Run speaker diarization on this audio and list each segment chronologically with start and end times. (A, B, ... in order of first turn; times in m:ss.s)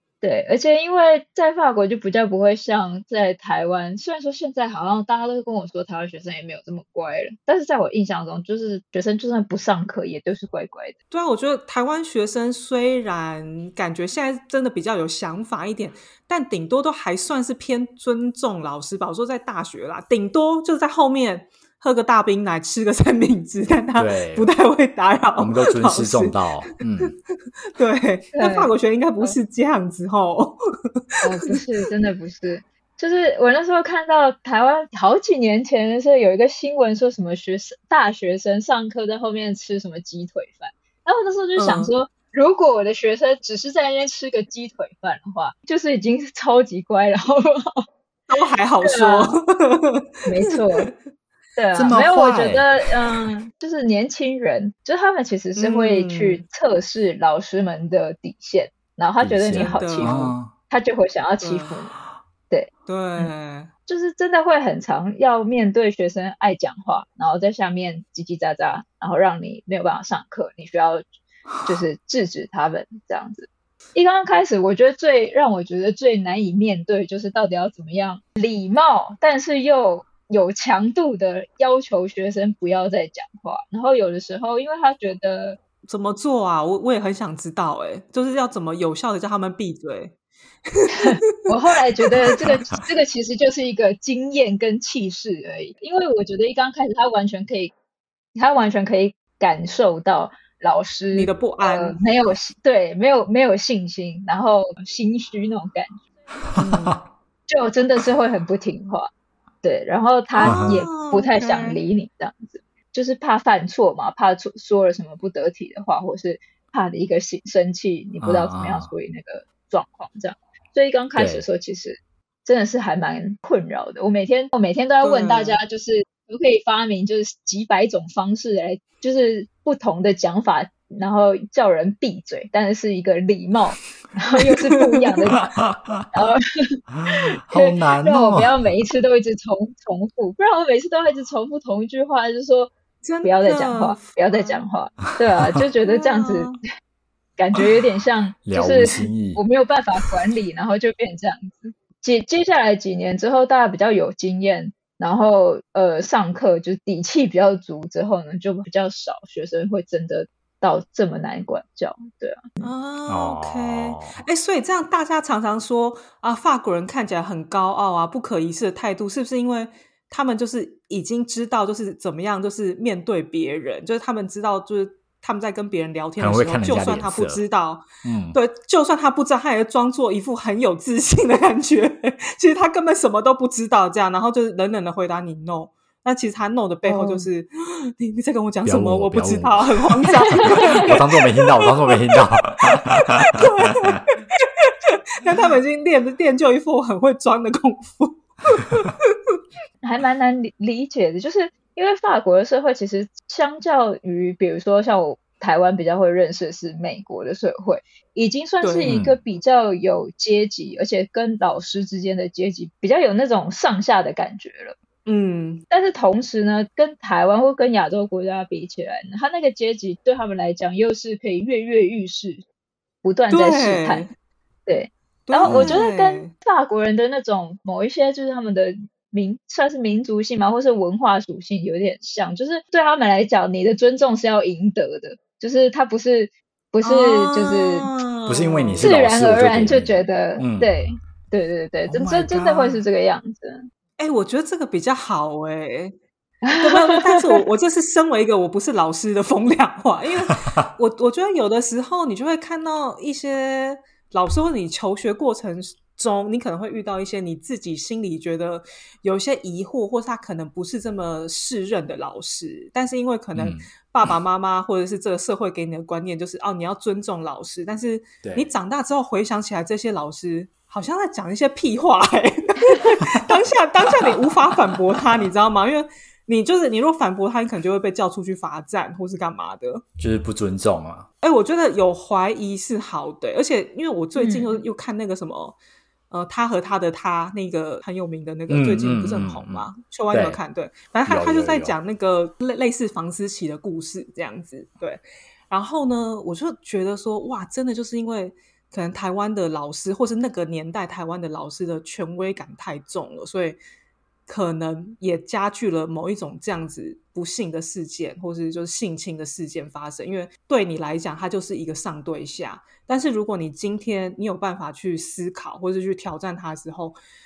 0:00.2-0:10.9 A
0:11.1-0:26.4 B
0:24.0-0:24.5 C
0:25.4-0:27.2 C
0:27.8-0:30.6 B
0:28.3-0:29.4 A
0:31.2-0:47.8 A
0:31.3-0:31.6 B
0:41.6-0:41.9 B
0:48.3-0:50.9 B
0:48.8-0:49.4 A
0:50.3-0:50.9 A
0:51.6-1:02.0 A
0:51.7-0:52.7 C
0:55.6-0:56.4 B
0:59.2-1:00.5 C
0:59.6-1:00.2 B
1:01.4-1:01.8 B
1:02.5-1:03.3 A
1:02.9-1:03.7 B
1:03.9-1:11.0 A
1:11.6-1:25.6 A
1:25.9-1:30.2 B
1:30.7-1:32.5 B
1:31.0-1:37.7 A
1:38.4-1:46.0 A
1:41.1-1:42.0 B
1:46.6-1:47.0 B
1:47.5-1:49.1 A
1:49.6-2:15.6 A
1:50.3-1:51.8 B
1:50.4-1:50.9 C
1:58.2-1:58.9 C
2:01.2-2:01.4 C
2:05.0-2:05.6 B
2:14.4-2:15.3 B
2:15.6-2:16.0 C
2:16.1-2:16.8 A
2:17.0-2:18.7 C
2:17.5-2:22.7 A
2:23.0-2:24.6 B
2:23.2-2:26.5 A
2:25.8-2:26.6 B
2:27.4-2:42.7 A
2:28.4-2:29.4 C
2:42.6-3:11.0 B
2:43.1-2:44.2 C
2:56.2-2:57.4 C
2:58.0-2:58.4 C
3:06.9-3:07.3 A
3:08.6-3:13.0 C
3:11.6-3:12.0 B
3:13.2-3:14.2 B
3:15.2-3:18.9 B
3:19.8-3:34.8 A
3:28.6-3:29.0 B
3:28.8-3:29.2 C
3:35.1-3:35.6 B
3:35.7-3:42.4 A
3:43.0-3:44.1 A
3:43.3-3:44.1 B
3:44.7-3:57.9 A
3:45.3-3:46.3 B
3:45.4-3:45.8 C
3:56.8-3:59.0 B
3:58.3-4:00.7 C
3:58.8-4:03.7 A
4:01.9-4:02.8 C
4:04.0-4:06.0 B
4:06.4-4:07.2 A
4:06.6-4:39.8 B
4:23.4-4:23.6 C
4:28.2-4:28.5 C
4:40.0-4:41.1 C
4:41.2-4:45.6 B
4:44.2-4:44.6 A
4:46.1-5:03.6 B
4:48.5-4:50.4 C
4:51.1-4:51.8 C
5:04.3-5:17.0 B